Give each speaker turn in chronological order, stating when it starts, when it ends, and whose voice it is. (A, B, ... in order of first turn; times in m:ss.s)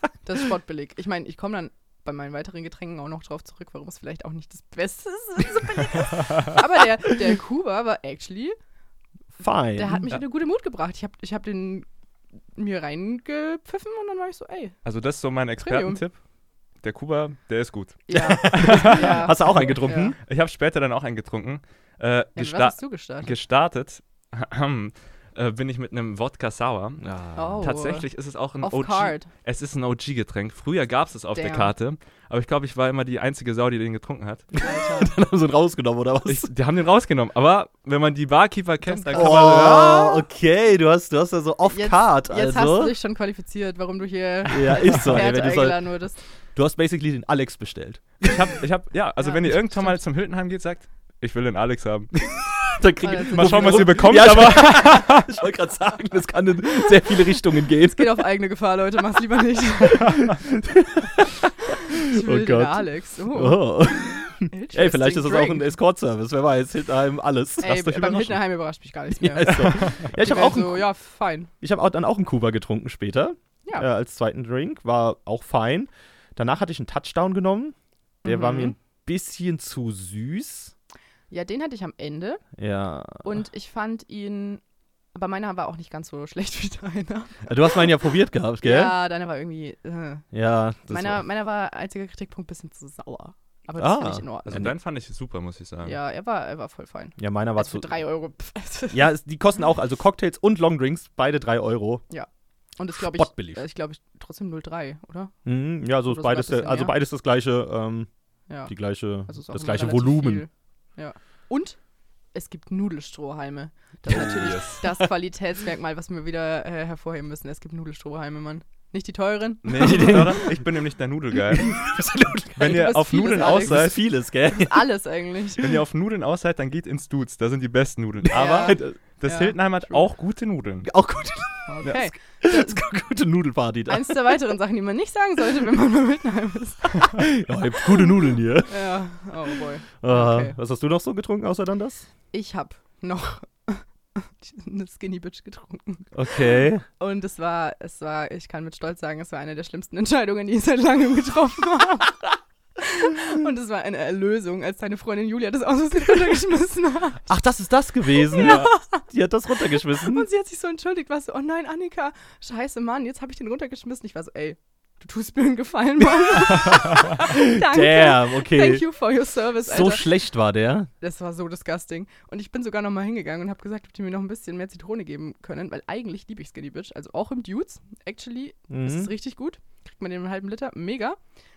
0:00.2-0:08.6 A
0:09.4-0:10.1 B
0:09.7-0:11.8 A
0:12.6-0:14.8 A
0:14.8-0:16.2 C
0:15.6-0:16.0 A
0:16.8-0:19.7 C
0:18.1-0:20.1 A
0:18.1-0:20.2 B
0:20.2-0:27.1 C
0:22.4-0:23.3 A
0:27.0-0:27.6 B
0:27.4-0:28.1 A
0:27.6-0:34.4 C
0:28.6-0:29.3 A
0:31.3-0:31.7 A
0:34.6-0:35.1 A
0:35.0-0:36.5 B
0:36.2-0:40.2 C
0:38.8-0:39.6 A
0:39.1-0:43.0 B
0:41.7-0:46.2 A
0:44.5-0:45.9 B
0:46.5-0:48.3 B
0:48.2-0:52.2 C
0:49.2-0:50.0 A
0:52.7-0:58.2 B
0:53.0-0:54.4 A
0:53.3-0:55.3 C
0:57.8-1:00.2 A
1:00.6-1:08.4 B
1:01.9-1:05.7 A
1:07.6-1:11.5 A
1:09.2-1:10.9 B
1:11.6-1:20.7 B
1:18.2-1:18.8 A
1:21.3-1:22.4 A
1:22.6-1:23.4 B
1:23.2-1:24.6 A
1:25.1-1:27.5 A
1:27.5-1:29.0 B
1:28.6-1:30.2 A
1:30.3-1:31.2 B
1:30.9-1:34.7 A
1:33.8-1:34.7 B
1:34.5-1:36.0 C
1:35.8-1:39.1 A
1:37.2-1:38.0 B
1:38.9-1:42.0 B
1:42.1-1:45.3 A
1:42.9-1:43.6 B
1:45.4-1:48.1 B
1:46.0-1:46.9 A
1:48.7-1:50.4 B
1:49.3-1:51.8 A
1:52.3-2:00.3 A
1:54.1-1:54.8 C
1:59.6-2:01.8 C
1:59.8-2:00.5 B
2:01.5-2:04.9 B
2:02.6-2:04.0 C
2:02.6-2:05.7 A
2:05.6-2:10.9 C
2:08.3-2:09.9 A
2:08.4-2:08.8 B
2:10.8-2:14.4 B
2:11.7-2:12.8 A
2:13.9-2:17.2 A
2:17.2-2:18.9 B
2:18.7-2:20.5 A
2:20.0-2:22.1 B
2:22.3-2:26.1 A
2:26.1-2:26.8 B
2:27.0-2:32.2 A
2:32.8-2:37.3 A
2:37.3-2:40.3 B
2:38.1-2:39.0 A
2:39.9-2:50.1 A
2:47.2-2:48.9 B
2:49.6-2:50.9 B
2:51.0-3:01.2 A
2:58.7-2:59.1 B